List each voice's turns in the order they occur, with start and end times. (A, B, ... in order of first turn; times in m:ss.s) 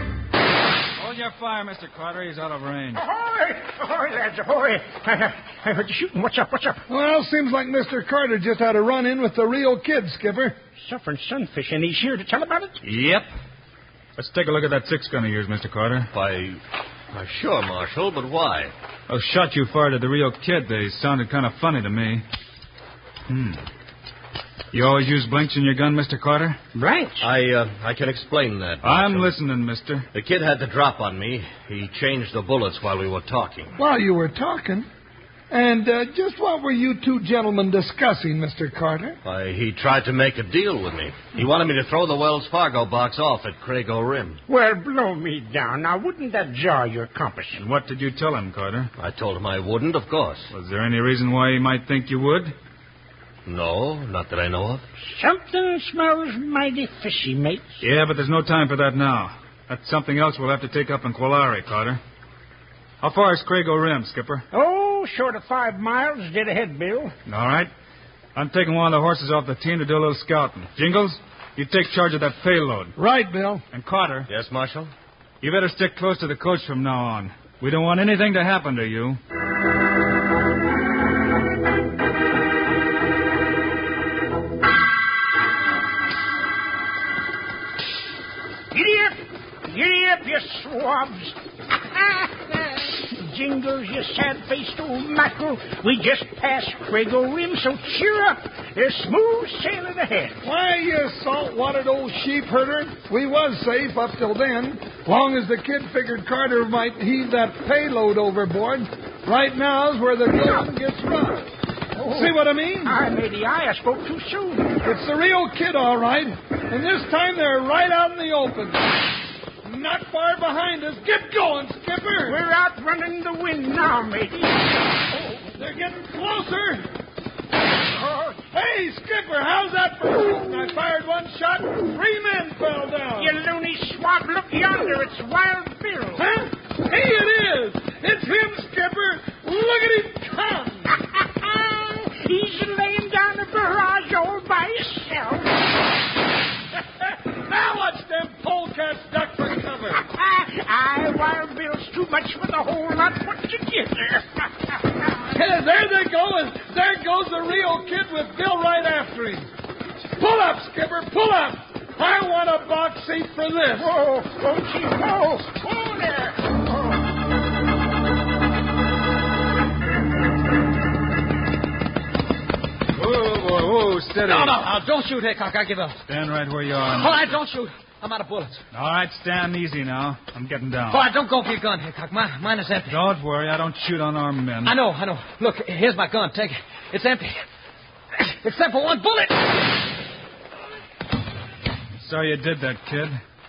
0:01.0-0:03.0 A
0:03.0-0:06.8 B
0:06.9-0:10.6 C
0:10.8-0:12.8 B
0:12.8-0:13.3 A
0:14.2-0:16.1 A
0:16.1-0:16.6 D
0:17.1-0:18.7 D
0:19.1-0:22.2 A
0:23.3-0:23.6 A
0:24.7-0:26.6 A
0:26.7-0:27.2 B
0:27.2-0:29.3 D
0:28.8-0:30.1 A
0:30.1-0:33.7 D
0:33.8-0:34.9 C
0:35.5-0:39.2 C
0:39.2-0:44.4 D
0:44.5-0:47.6 B
0:47.6-0:48.9 A
0:49.0-0:50.5 D
0:50.5-0:52.5 A
0:53.4-0:54.8 D
0:55.0-0:57.8 B
0:57.8-1:02.0 A
1:03.0-1:04.4 A
1:04.5-1:07.1 B
1:07.2-1:07.7 A
1:08.3-1:13.0 A
1:13.0-1:13.6 C
1:13.7-1:14.3 A
1:14.3-1:14.9 D
1:15.4-1:19.2 A
1:28.7-1:40.4 B
1:40.4-1:51.5 C
1:52.0-1:54.8 B
1:52.0-1:53.0 C
1:54.8-1:58.8 C
1:59.6-2:02.4 C
2:02.2-2:05.2 B
2:05.6-2:06.9 C
2:07.9-2:08.4 B
2:08.5-2:13.3 C
2:13.2-2:16.2 B
2:16.2-2:21.0 C
2:21.1-2:25.5 B
2:27.2-2:30.0 C
2:30.1-2:35.0 B
2:35.3-2:39.5 C
2:40.2-2:43.9 C
2:43.7-2:46.9 B
2:52.9-2:54.6 A
2:54.2-2:56.0 E
2:56.1-2:57.3 A
2:56.8-2:58.6 E
2:58.7-3:01.1 A
3:00.9-3:03.0 E
3:02.9-3:04.7 A
3:04.6-3:07.4 E
3:08.2-3:09.5 E
3:12.0-3:13.2 A